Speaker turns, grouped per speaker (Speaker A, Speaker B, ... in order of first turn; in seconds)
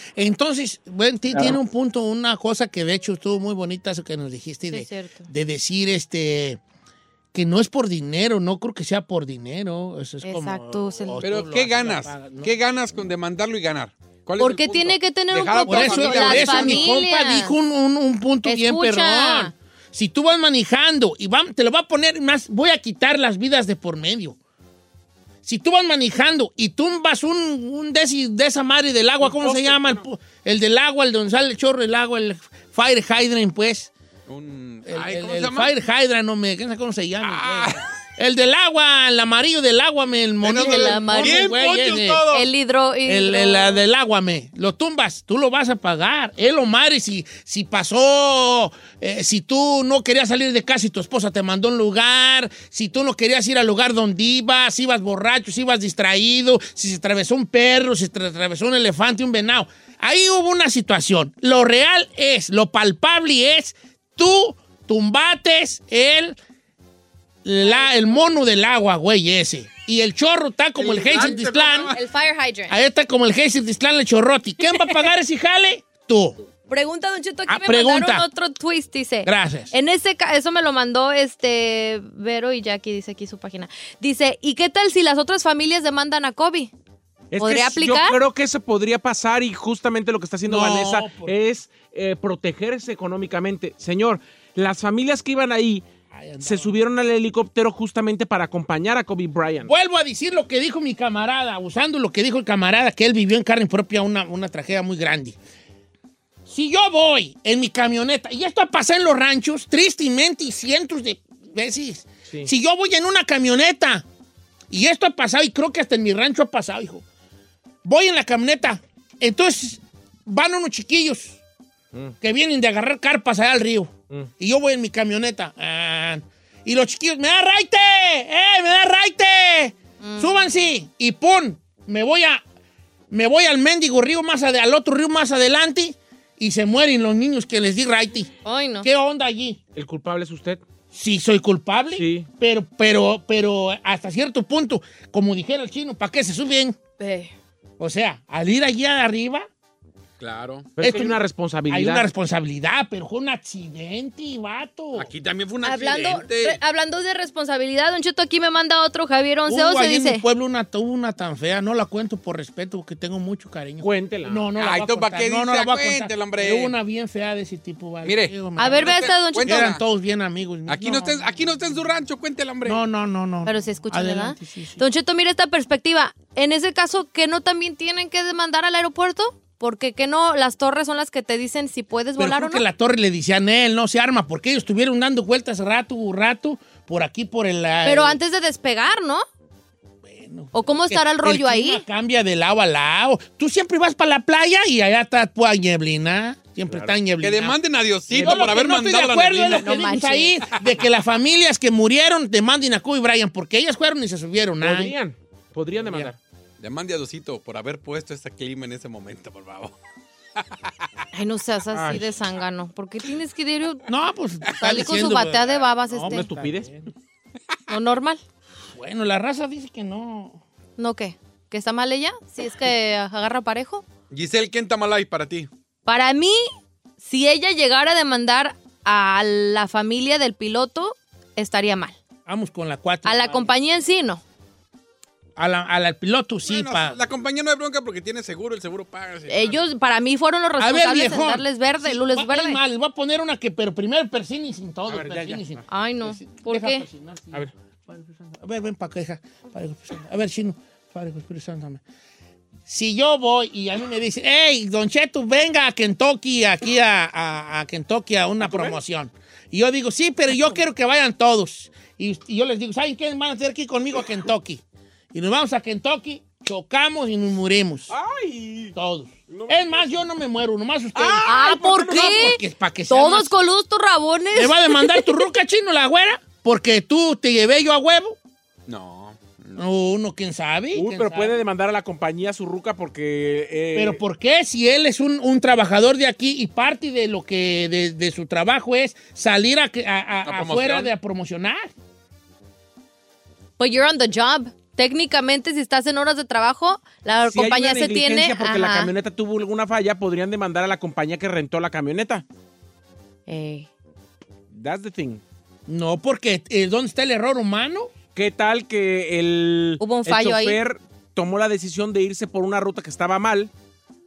Speaker A: 0.2-6.6, 7.3-12.5, 15.7-24.4, 25.4-33.9, 34.9-42.3, 43.0-66.4, 67.5-72.0, 72.7-76.4, 77.5-78.3, 79.2-79.7, 90.5-91.3, 96.1-96.8, 99.6-105.4, 106.5-114.0, 114.7-117.0, 117.8-121.4, 122.2-132.4, 133.1-139.6, 140.9-146.8, 147.8-149.5, 150.8-151.2, 151.7-155.1, 159.5-171.6, 172.7-174.8, 182.2-188.2, 190.0-197.6, 198.2-204.9, 205.8-206.1, 213.9-216.9, 218.7-220.4, 232.3-233.5, 235.4-237.0, 240.6-251.8, 252.7-264.6, 265.1-267.9, 268.7-273.3, 274.3-278.2, 279.6-281.4, 283.8-291.7, 305.7-307.9
Speaker B: 4.7-5.3, 10.2-11.3, 14.4-17.6, 18.4-19.5, 40.5-41.6, 42.2-43.8, 67.7-68.2, 71.6-72.8, 76.7-86.7, 87.4-88.2, 130.0-130.4, 138.4-138.9, 147.0-147.3, 155.6-160.2, 168.6-169.7, 173.4-182.6, 187.8-189.3, 190.5-191.8, 199.5-200.4, 211.1-213.8, 214.6-216.2, 217.7-218.2, 220.8-223.9, 225.9-226.5, 227.0-232.0, 233.1-234.2, 239.3-242.6, 245.7-246.8, 271.2-275.3, 293.6-298.9, 303.3-303.7, 309.8-310.6
Speaker C: 11.2-16.9, 34.3-35.7, 37.2-37.9, 40.4-42.5, 70.8-72.0, 150.2-150.8, 154.9-156.6, 164.6-166.7, 168.0-169.8, 170.7-172.8, 197.2-199.8, 206.6-209.8, 210.4-210.7, 224.1-225.5, 236.5-239.6, 278.7-279.6, 290.2-290.9
Speaker D: 29.2-30.0, 87.3-95.9, 96.4-99.7, 139.8-140.6, 141.9-142.3, 150.8-152.1, 163.8-164.5, 196.7-197.0, 198.1-198.6, 204.6-206.2, 211.7-212.1, 216.1-216.7, 244.9-245.6, 258.4-258.7, 267.9-268.7, 269.3-270.0, 270.9-272.3, 280.7-284.0, 297.2-302.2, 304.5-305.2, 308.1-313.5